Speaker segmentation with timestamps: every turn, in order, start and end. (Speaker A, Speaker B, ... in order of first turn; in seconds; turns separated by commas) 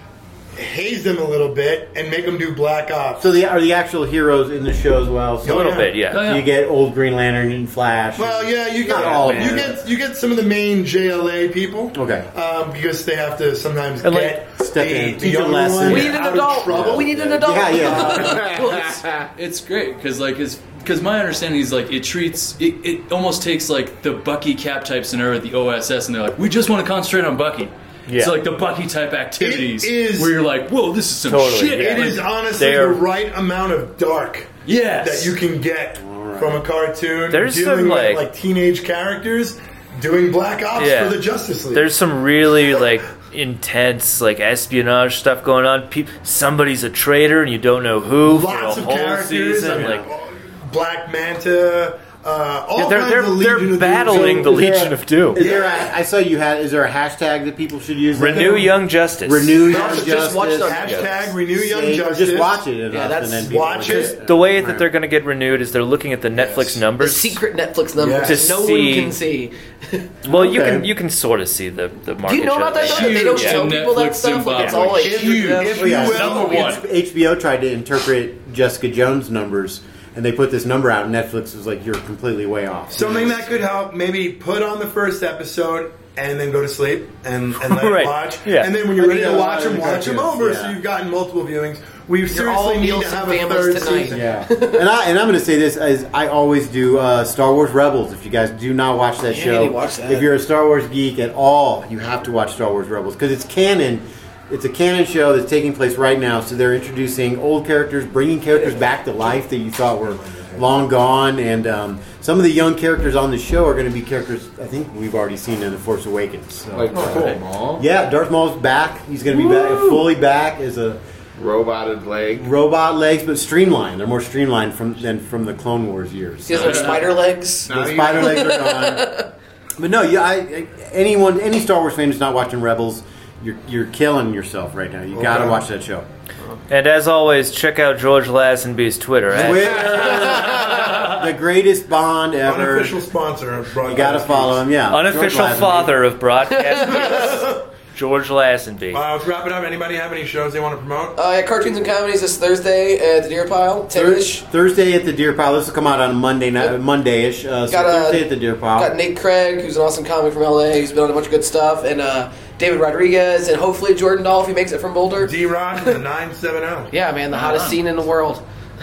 Speaker A: 0.5-3.4, Speaker B: 3.2-9.8, Speaker C: 5.4-6.2, Speaker A: 5.5-5.9, Speaker D: 6.1-6.5, Speaker A: 8.2-17.1, Speaker E: 8.9-9.6, Speaker B: 11.9-12.3, Speaker C: 14.0-14.4, Speaker B: 14.6-16.2, Speaker F: 15.9-18.8, Speaker B: 16.7-18.5, Speaker E: 18.2-19.3, Speaker D: 18.6-32.3, Speaker C: 28.1-28.3, Speaker A: 29.4-30.4, Speaker C: 31.2-33.0, Speaker A: 31.7-41.9, Speaker D: 34.6-35.4, Speaker B: 36.0-36.6, Speaker C: 37.3-38.2, Speaker C: 40.8-41.2, Speaker C: 41.7-50.1, Speaker A: 48.2-54.5, Speaker B: 49.6-50.0, Speaker C: 52.8-55.4, Speaker B: 54.0-58.7, Speaker A: 55.4-55.9, Speaker C: 58.1-59.7, Speaker A: 58.3-58.7, Speaker B: 59.2-64.9, Speaker A: 59.7-62.7, Speaker F: 59.7-61.2, Speaker F: 62.9-63.7, Speaker A: 63.5-64.2, Speaker C: 63.9-67.4, Speaker A: 66.3-66.8, Speaker F: 67.0-70.1, Speaker A: 68.0-68.5, Speaker C: 68.2-69.2, Speaker B: 70.2-70.9, Speaker C: 70.2-73.8, Speaker F: 72.2-75.7, Speaker D: 72.8-76.8, Speaker C: 74.6-74.9, Speaker A: 75.0-76.7, Speaker B: 75.6-83.5, Speaker A: 82.9-94.2, Speaker C: 87.6-88.7, Speaker B: 88.9-90.8, Speaker F: 92.3-94.8, Speaker B: 94.1-117.1, Speaker F: 99.3-100.3, Speaker E: 116.7-117.8, Speaker A: 116.9-117.4, Speaker D: 117.0-117.4, Speaker B: 117.8-121.0, Speaker E: 121.4-122.5, Speaker B: 122.4-127.1, Speaker F: 126.5-129.3, Speaker E: 126.6-126.9, Speaker D: 126.6-127.1, Speaker E: 127.7-128.5, Speaker B: 127.7-129.1, Speaker B: 129.8-136.1, Speaker A: 135.1-135.6, Speaker C: 136.7-139.9, Speaker B: 139.3-143.0, Speaker F: 139.8-141.0, Speaker A: 142.4-144.7, Speaker B: 143.8-145.9, Speaker C: 144.9-149.0, Speaker F: 146.5-147.2, Speaker A: 146.9-147.6, Speaker A: 148.9-151.2, Speaker F: 151.2-154.4, Speaker B: 153.9-158.9, Speaker F: 157.7-165.9, Speaker A: 165.2-166.9, Speaker F: 166.9-168.4, Speaker D: 167.3-167.8